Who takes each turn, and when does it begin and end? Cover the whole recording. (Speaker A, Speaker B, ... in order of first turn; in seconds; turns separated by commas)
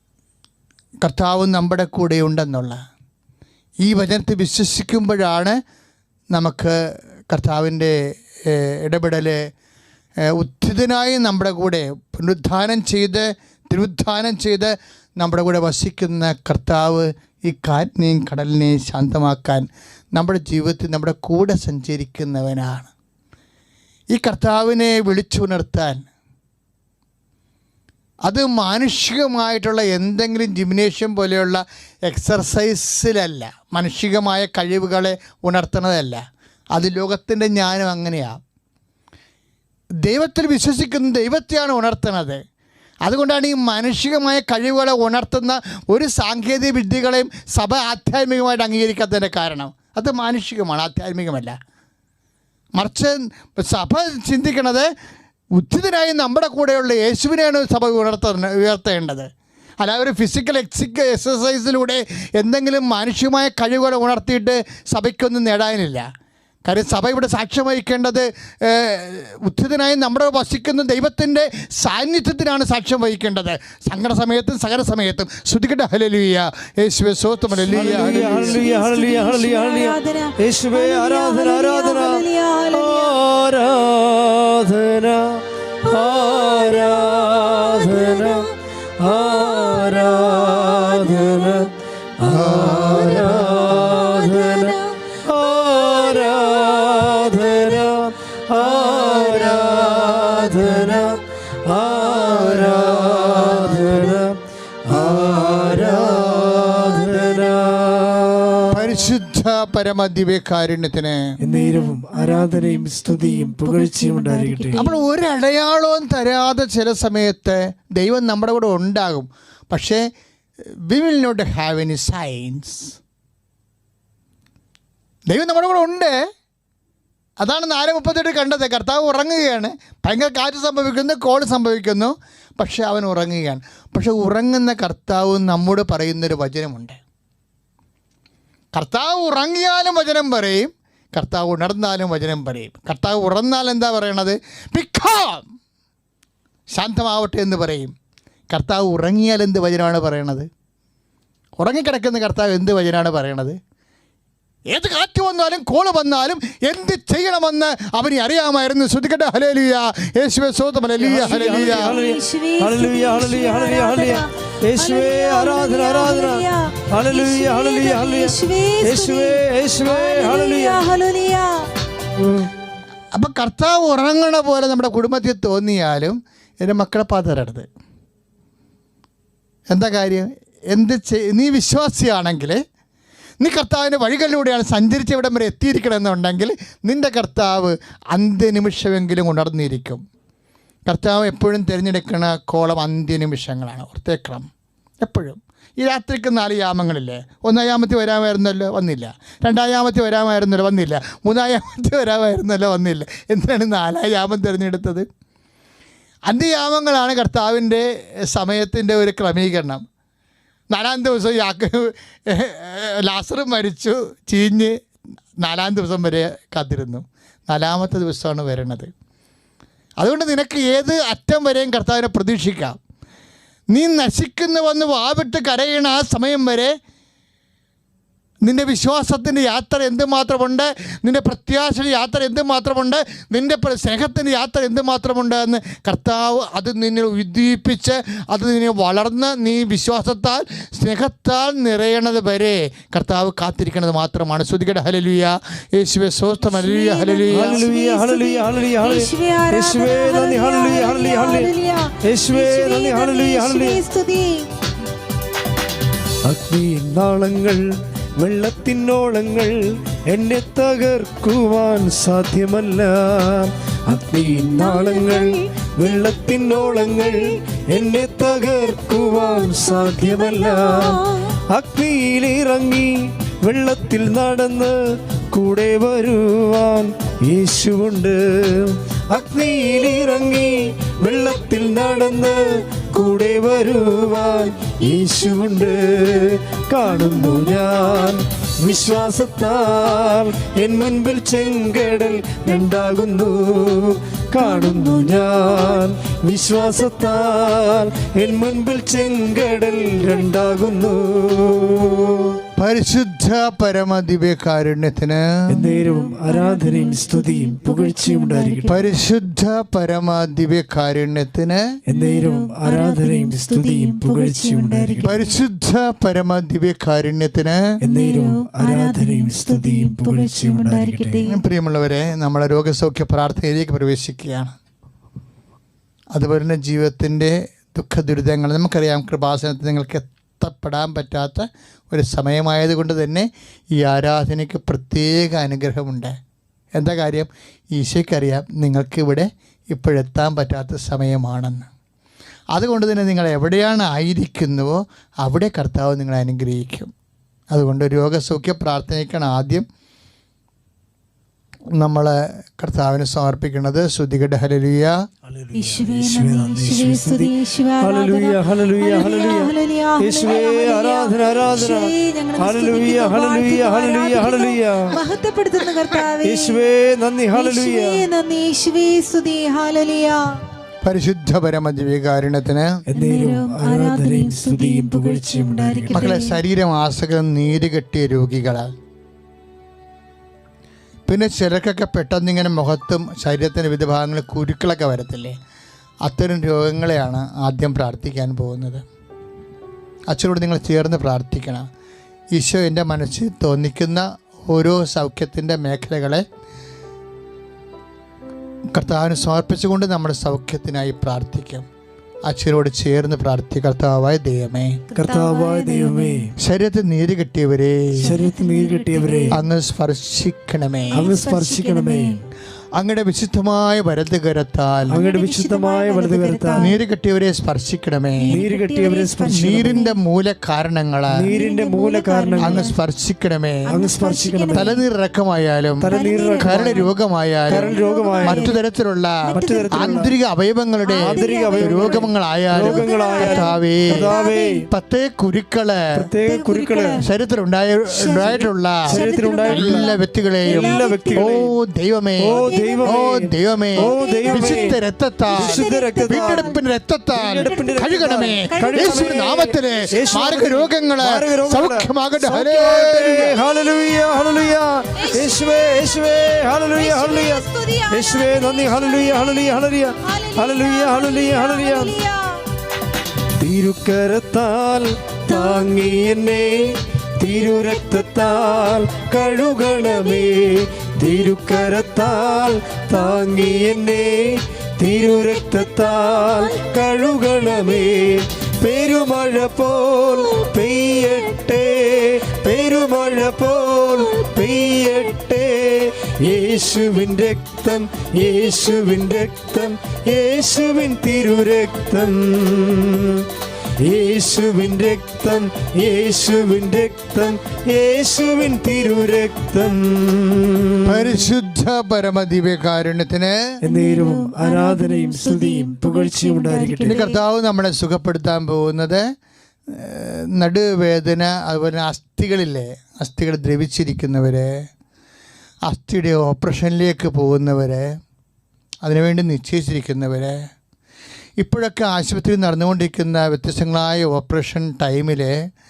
Speaker A: 1.0-2.8, Speaker A: 3.8-5.6, Speaker A: 6.3-9.4, Speaker A: 10.3-22.9, Speaker A: 24.1-26.1, Speaker A: 28.3-36.2, Speaker A: 36.7-38.4, Speaker A: 40.0-42.4, Speaker A: 43.0-51.6, Speaker A: 52.8-54.9, Speaker A: 55.6-59.3, Speaker A: 59.8-66.1, Speaker A: 66.7-78.6, Speaker B: 77.7-83.2, Speaker C: 77.7-109.0, Speaker B: 85.9-86.8, Speaker B: 87.7-88.5, Speaker B: 89.7-90.0, Speaker A: 92.3-93.1, Speaker B: 92.8-95.0, Speaker A: 108.7-111.3, Speaker C: 111.4-114.8, Speaker B: 111.4-115.0, Speaker A: 114.8-120.1, Speaker A: 120.9-123.0, Speaker A: 125.3-126.2, Speaker A: 127.4-137.0, Speaker A: 138.7-145.5, Speaker A: 146.7-147.9, Speaker A: 148.5-150.5, Speaker A: 151.6-153.6, Speaker A: 154.7-161.9, Speaker C: 161.0-170.9, Speaker B: 161.3-171.7, Speaker A: 173.1-177.7, Speaker A: 179.7-182.6, Speaker A: 183.4-190.0, Speaker A: 190.9-194.5, Speaker A: 195.0-205.1, Speaker A: 206.3-209.8, Speaker A: 210.7-214.8, Speaker A: 215.4-218.9, Speaker A: 220.0-222.8, Speaker A: 223.7-226.8, Speaker A: 228.4-247.6, Speaker B: 246.4-254.5, Speaker C: 247.3-251.5, Speaker C: 252.0-253.8, Speaker C: 256.2-302.4, Speaker B: 264.7-265.3, Speaker B: 270.4-271.3, Speaker B: 294.6-294.9, Speaker A: 302.6-305.7, Speaker C: 305.5-308.9, Speaker B: 305.6-308.9, Speaker A: 308.7-311.7, Speaker C: 311.9-315.2, Speaker B: 311.9-315.3, Speaker A: 315.0-317.7, Speaker C: 317.8-321.3, Speaker B: 317.8-321.4, Speaker A: 321.3-324.5, Speaker A: 326.1-336.1, Speaker A: 336.8-341.7, Speaker A: 342.5-346.9, Speaker A: 347.5-349.7, Speaker A: 351.8-355.1, Speaker C: 355.3-365.0, Speaker B: 355.5-366.6, Speaker C: 366.2-368.0, Speaker B: 367.3-370.4, Speaker A: 370.9-372.8, Speaker C: 372.9-376.3, Speaker B: 373.0-376.4, Speaker A: 375.9-378.7, Speaker A: 381.1-385.4, Speaker A: 386.1-388.9, Speaker A: 390.1-391.7, Speaker A: 392.3-396.3, Speaker A: 398.7-401.7, Speaker A: 402.2-404.8, Speaker B: 404.9-406.3, Speaker C: 404.9-406.3, Speaker A: 406.4-408.2, Speaker B: 408.0-409.4, Speaker C: 408.0-409.4, Speaker A: 409.3-411.1, Speaker B: 410.9-412.2, Speaker C: 410.9-412.1, Speaker A: 412.8-415.0, Speaker C: 414.9-416.7, Speaker B: 415.0-416.8, Speaker A: 416.6-418.4, Speaker B: 418.2-420.0, Speaker C: 418.3-419.9, Speaker A: 419.3-421.3, Speaker C: 421.1-422.7, Speaker B: 421.3-422.8, Speaker A: 422.4-423.7, Speaker B: 423.7-424.8, Speaker C: 423.7-424.7, Speaker A: 424.5-425.9, Speaker C: 425.8-426.9, Speaker B: 425.9-426.9, Speaker A: 426.4-434.0, Speaker B: 427.5-428.6, Speaker C: 427.5-428.5, Speaker B: 429.2-430.1, Speaker C: 429.3-430.1, Speaker B: 430.9-434.7, Speaker C: 431.0-434.7, Speaker A: 434.7-435.9, Speaker C: 435.9-437.1, Speaker B: 436.2-437.1, Speaker A: 437.0-453.4, Speaker B: 437.9-441.4, Speaker C: 438.9-439.9, Speaker C: 440.5-441.5, Speaker C: 442.2-444.8, Speaker B: 442.3-443.1, Speaker B: 443.8-446.6, Speaker C: 445.4-446.6, Speaker C: 447.1-461.9, Speaker B: 447.4-447.9, Speaker B: 448.5-449.4, Speaker B: 455.0-455.8, Speaker B: 456.8-459.4, Speaker B: 460.0-462.4, Speaker C: 463.4-501.3, Speaker A: 500.9-503.4, Speaker B: 503.6-507.2, Speaker C: 503.6-507.0, Speaker A: 506.8-509.1, Speaker A: 509.7-514.5, Speaker A: 515.7-517.9, Speaker A: 518.8-520.4, Speaker A: 521.4-525.4